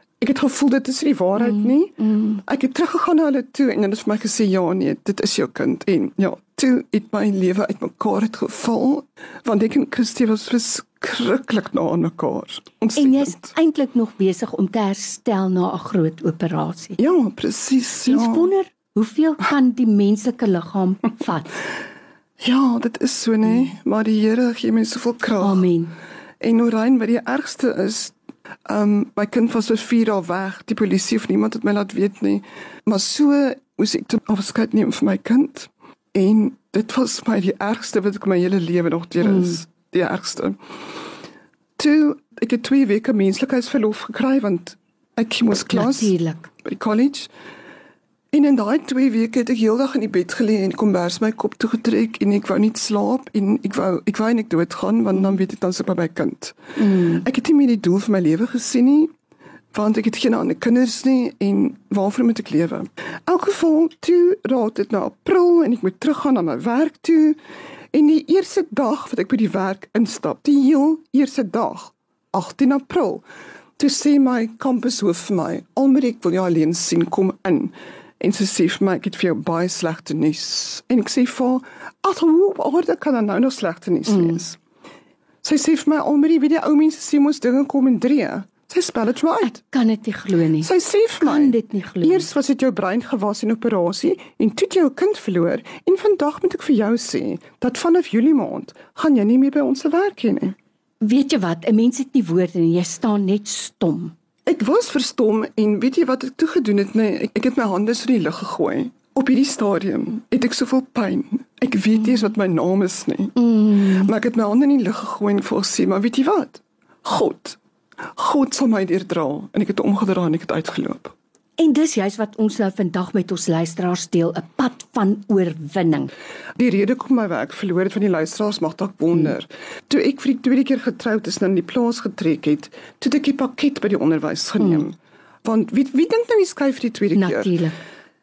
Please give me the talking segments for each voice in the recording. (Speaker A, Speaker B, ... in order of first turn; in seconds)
Speaker A: 0.2-13.5, 17.0-18.5, 22.4-25.7, 26.4-28.1, 28.7-40.6, 41.8-47.3, 48.3-59.1, 59.7-67.4, 67.9-73.2, 73.8-84.6, 85.4-89.5, 90.6-100.5, 104.5-117.6, 118.1-121.1, 126.6-137.5
Speaker B: 1.4-2.4, 12.9-17.0, 18.0-21.6, 25.4-25.9, 39.2-39.6, 45.7-46.5, 56.8-57.2, 84.1-84.4, 89.4-92.3, 101.0-104.1, 113.4-114.1, 121.6-126.1, 137.1-137.8